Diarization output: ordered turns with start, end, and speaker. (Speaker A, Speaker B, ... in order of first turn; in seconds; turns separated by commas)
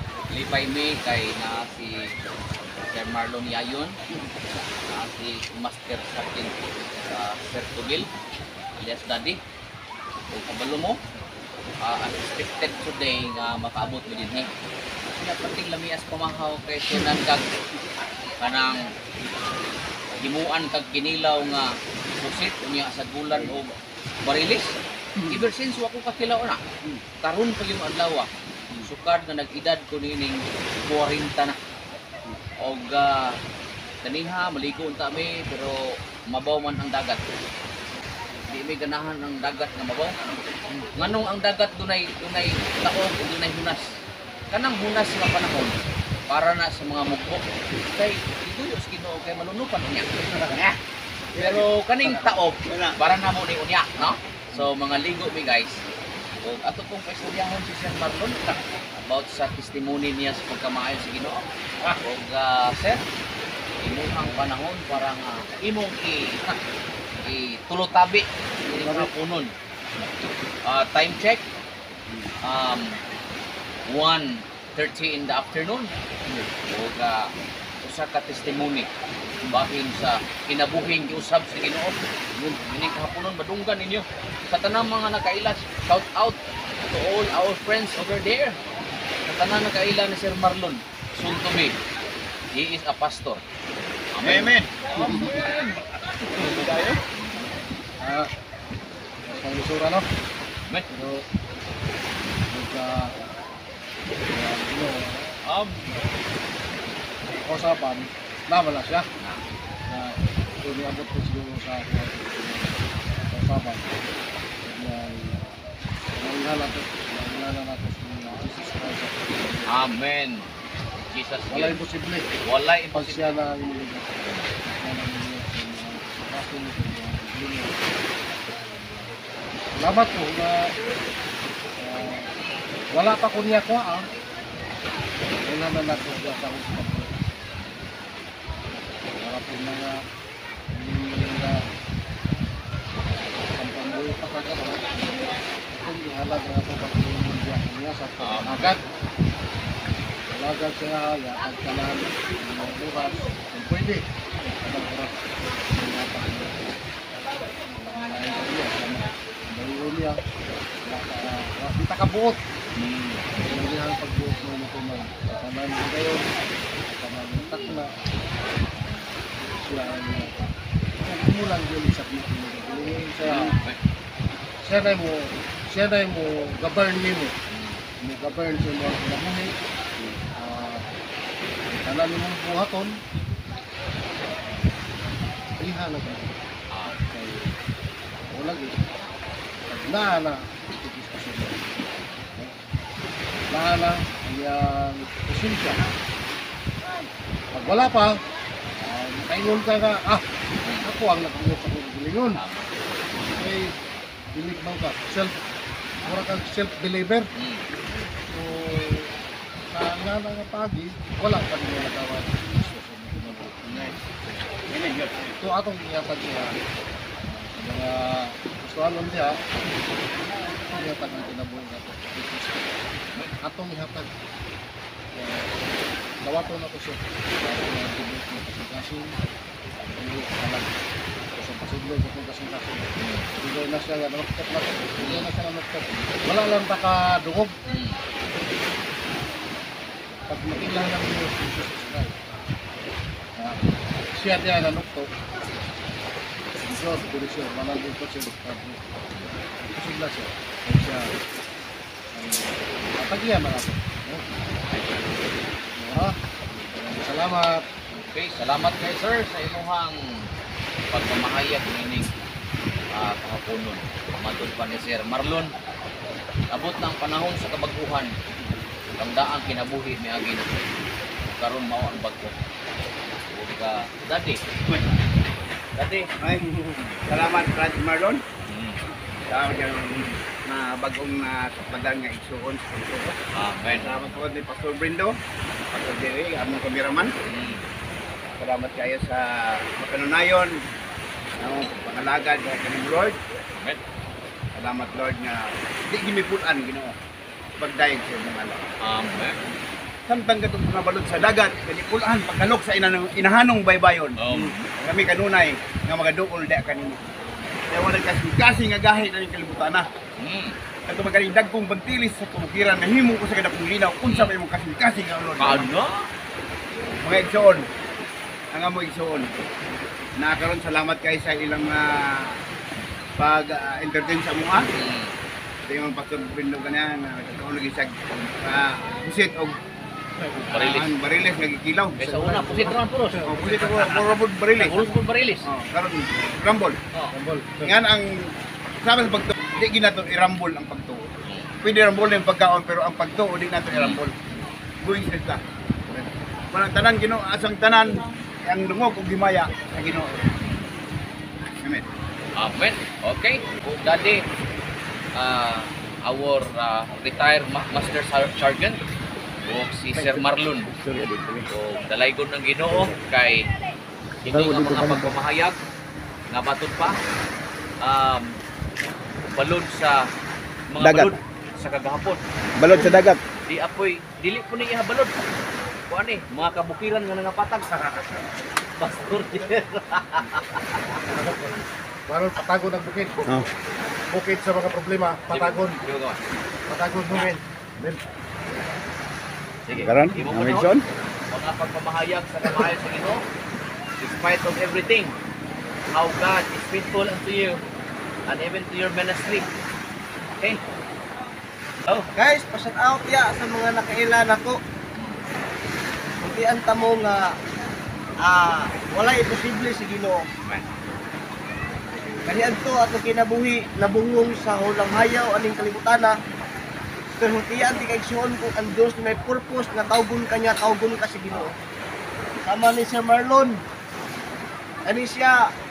Speaker A: 0.3-2.1, Speaker A: 2.9-4.0, Speaker A: 4.9-8.1, Speaker A: 8.8-9.4, Speaker A: 10.3-11.0, Speaker A: 11.8-14.5, Speaker A: 15.1-17.5, Speaker A: 18.4-18.8, Speaker A: 20.2-23.7, Speaker A: 24.2-24.7, Speaker A: 25.2-26.6, Speaker A: 27.2-28.3, Speaker A: 28.8-31.6, Speaker A: 32.6-33.3, Speaker A: 34.0-35.8, Speaker A: 36.3-37.2, Speaker A: 38.5-40.1, Speaker A: 41.0-43.9, Speaker A: 44.5-50.1, Speaker B: 50.5-50.8, Speaker B: 51.3-51.7, Speaker A: 51.4-55.8, Speaker B: 52.7-53.0, Speaker A: 56.4-61.4, Speaker A: 62.0-63.0, Speaker A: 63.8-66.5, Speaker C: 64.2-64.4, Speaker A: 67.2-69.5, Speaker C: 68.7-69.1, Speaker A: 70.7-71.4, Speaker A: 72.4-73.0, Speaker A: 73.9-75.9, Speaker A: 76.7-77.3, Speaker A: 77.8-78.9, Speaker A: 79.5-86.4, Speaker A: 86.9-88.6, Speaker A: 89.2-91.7, Speaker A: 92.5-93.4, Speaker A: 94.1-95.4, Speaker B: 94.2-97.0, Speaker C: 95.0-95.3, Speaker C: 98.0-98.3, Speaker C: 99.3-100.1, Speaker C: 100.9-101.2, Speaker C: 102.5-103.3, Speaker C: 104.3-105.3, Speaker A: 105.5-105.9, Speaker C: 107.3-109.1, Speaker C: 109.9-112.8, Speaker C: 113.3-113.9, Speaker C: 114.6-115.6, Speaker C: 116.2-119.7, Speaker A: 119.7-120.5, Speaker A: 121.1-121.8, Speaker C: 121.5-122.3, Speaker A: 122.4-123.2, Speaker C: 122.9-124.1, Speaker C: 124.8-129.1, Speaker C: 129.8-130.6, Speaker C: 131.8-132.3, Speaker C: 132.9-134.1, Speaker C: 135.4-137.1, Speaker C: 139.2-139.9, Speaker C: 140.7-141.6, Speaker C: 143.5-148.8, Speaker A: 148.2-148.7, Speaker C: 150.3-154.1, Speaker C: 154.6-156.8, Speaker C: 157.8-160.2, Speaker C: 160.8-162.4, Speaker A: 162.8-163.2, Speaker C: 163.4-166.3, Speaker C: 166.9-167.9, Speaker C: 169.4-170.5, Speaker C: 171.0-173.6, Speaker A: 173.2-173.8, Speaker C: 174.6-177.3, Speaker A: 177.5-177.8, Speaker C: 178.0-179.5, Speaker C: 180.4-180.8, Speaker C: 181.7-182.9, Speaker C: 185.6-186.3, Speaker A: 186.7-187.0, Speaker C: 187.0-187.5, Speaker C: 188.3-188.8, Speaker C: 189.7-191.7, Speaker C: 193.5-195.9, Speaker C: 197.5-198.2, Speaker C: 198.8-200.2, Speaker C: 200.8-202.4, Speaker A: 202.3-202.7, Speaker C: 203.3-203.7, Speaker C: 204.3-205.3, Speaker C: 206.0-207.2, Speaker A: 207.3-207.6, Speaker C: 208.3-209.2, Speaker C: 209.7-214.2, Speaker A: 213.7-214.0, Speaker B: 214.7-215.3, Speaker C: 215.4-216.6, Speaker C: 217.2-219.3, Speaker C: 220.7-222.7, Speaker C: 223.4-224.1, Speaker C: 225.1-225.6, Speaker C: 226.2-229.1, Speaker C: 229.9-230.8, Speaker C: 231.3-232.9, Speaker A: 233.0-233.3, Speaker C: 233.4-237.5, Speaker A: 235.0-235.3, Speaker A: 237.7-238.0, Speaker C: 240.3-242.3, Speaker C: 244.1-245.1, Speaker C: 246.6-248.8, Speaker C: 249.6-251.1, Speaker C: 252.1-254.4, Speaker A: 254.7-255.0, Speaker C: 255.7-257.6, Speaker A: 258.0-260.2, Speaker A: 260.9-262.1, Speaker A: 262.9-265.5, Speaker A: 266.5-268.1, Speaker A: 269.0-270.8, Speaker A: 271.3-272.4, Speaker A: 273.3-274.4, Speaker B: 274.7-274.9, Speaker A: 275.8-276.1, Speaker B: 276.2-276.5, Speaker B: 277.1-278.2, Speaker A: 278.5-278.8, Speaker B: 279.3-283.1, Speaker A: 283.3-284.1, Speaker B: 283.7-285.1, Speaker B: 285.7-287.1, Speaker A: 287.2-287.7, Speaker B: 288.4-290.6, Speaker B: 291.4-293.2, Speaker B: 294.5-296.9, Speaker B: 297.6-298.6, Speaker A: 298.8-299.4, Speaker B: 300.1-307.0, Speaker A: 304.2-304.7, Speaker B: 307.7-309.9, Speaker A: 310.2-310.6, Speaker B: 310.9-315.7, Speaker A: 314.0-314.3, Speaker A: 315.4-316.1, Speaker B: 317.0-317.7, Speaker B: 318.5-319.3, Speaker B: 320.2-322.4, Speaker B: 323.2-324.7, Speaker A: 324.7-325.1, Speaker B: 325.7-329.6, Speaker C: 330.2-330.5, Speaker A: 330.5-330.9, Speaker B: 330.5-332.0, Speaker C: 332.0-333.6, Speaker A: 332.0-335.5, Speaker B: 333.3-334.8, Speaker B: 335.4-336.8, Speaker C: 337.1-337.7, Speaker B: 337.6-338.3, Speaker B: 338.8-341.1, Speaker A: 341.2-341.5, Speaker B: 341.6-344.1, Speaker A: 343.7-344.0, Speaker B: 344.8-345.4, Speaker B: 346.5-350.2, Speaker A: 350.4-350.7, Speaker B: 351.5-351.9, Speaker A: 352.4-354.2, Speaker A: 355.1-358.8, Speaker A: 359.4-360.7, Speaker B: 359.9-361.5, Speaker A: 361.5-363.4, Speaker A: 364.2-365.6, Speaker B: 364.3-365.0, Speaker A: 366.3-366.9, Speaker A: 367.8-368.3, Speaker A: 369.3-370.1, Speaker A: 370.7-375.3, Speaker B: 370.8-371.1, Speaker B: 372.6-373.2, Speaker A: 375.9-378.2, Speaker A: 378.8-380.6, Speaker C: 381.1-381.5, Speaker C: 382.1-383.4, Speaker C: 384.1-385.8, Speaker A: 385.3-386.2, Speaker C: 386.7-387.4, Speaker A: 389.7-390.7, Speaker B: 389.7-390.8, Speaker A: 391.3-393.2, Speaker A: 394.0-395.1, Speaker A: 395.9-397.6, Speaker A: 398.3-399.5, Speaker D: 402.1-404.6, Speaker D: 406.2-407.2, Speaker D: 408.2-410.2, Speaker A: 410.4-410.7, Speaker D: 412.2-416.1, Speaker D: 417.2-421.5, Speaker D: 422.4-423.6, Speaker D: 424.9-425.4